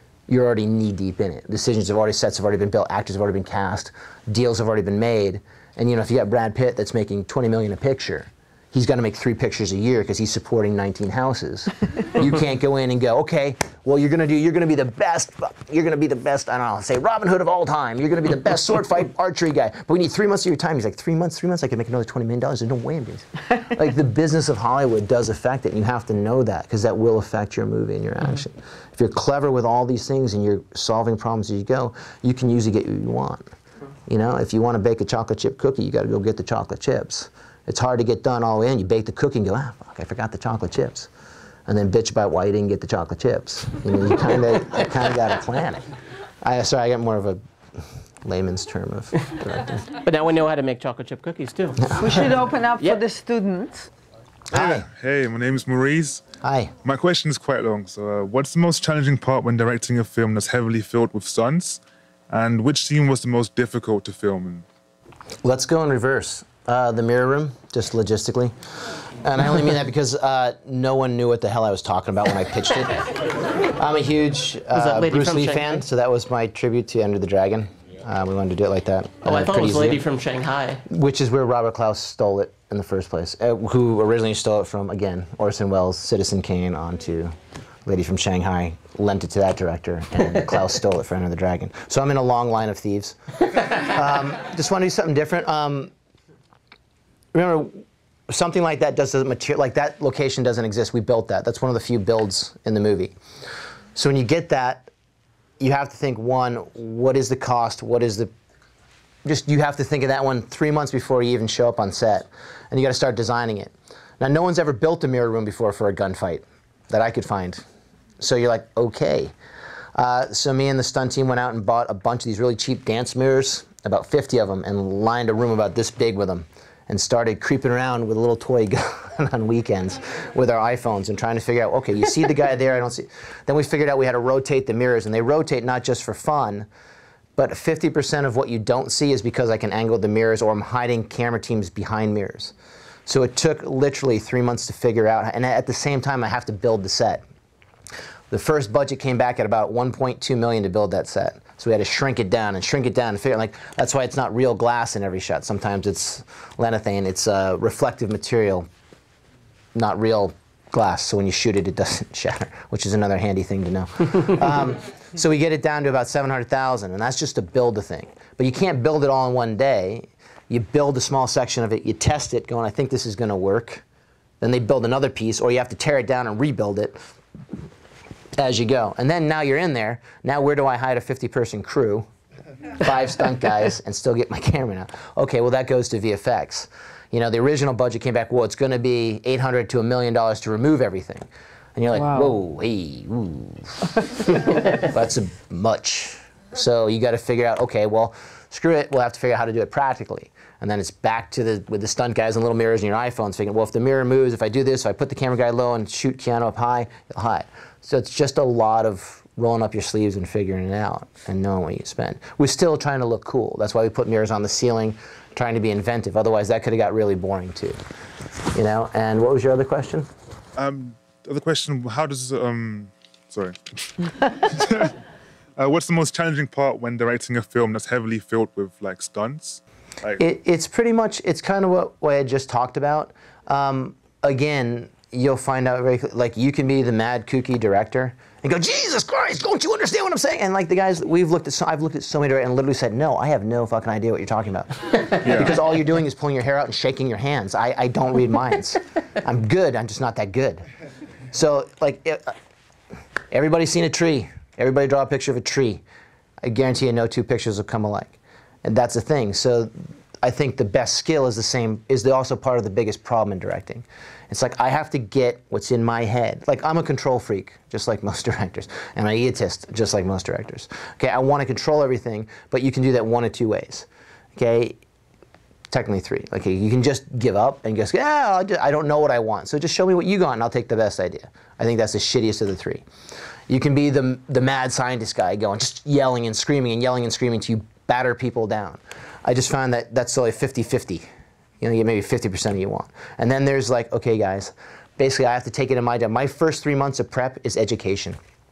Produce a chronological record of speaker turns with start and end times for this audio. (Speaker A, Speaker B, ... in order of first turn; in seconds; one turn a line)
Speaker A: 0.3-33.4
Speaker A: 34.1-41.1
Speaker A: 41.7-45.9
Speaker A: 46.4-47.4
Speaker A: 48.2-49.8
Speaker B: 50.0-52.2
Speaker C: 52.0-53.9
Speaker A: 54.5-54.9
Speaker D: 54.5-56.2
Speaker A: 56.4-56.7
Speaker D: 56.8-64.6
Speaker A: 65.4-80.0
Speaker B: 74.7-75.8
Speaker B: 79.2-80.8
Speaker A: 80.9-95.9
Speaker A: 97.3-103.1
Speaker A: 103.9-104.9
Speaker A: 105.6-108.3
Speaker A: 109.2-117.6
Speaker A: 118.2-119.3
Speaker A: 119.9-136.7
Speaker A: 137.3-142.5
Speaker A: 143.1-147.2
Speaker A: 148.3-158.7
Speaker A: 159.7-173.8
Speaker A: 174.4-177.0
Speaker A: 178.3-182.1
Speaker A: 182.8-217.8
Speaker C: 191.9-192.3
Speaker A: 218.5-220.1
Speaker D: 220.6-223.6
Speaker D: 224.3-224.9
Speaker D: 225.6-230.2
Speaker A: 230.2-250.7
Speaker A: 251.3-252.3
Speaker A: 253.3-255.8
Speaker A: 256.4-274.8
Speaker A: 275.7-282.8
Speaker A: 283.5-291.1
Speaker A: 291.6-298.2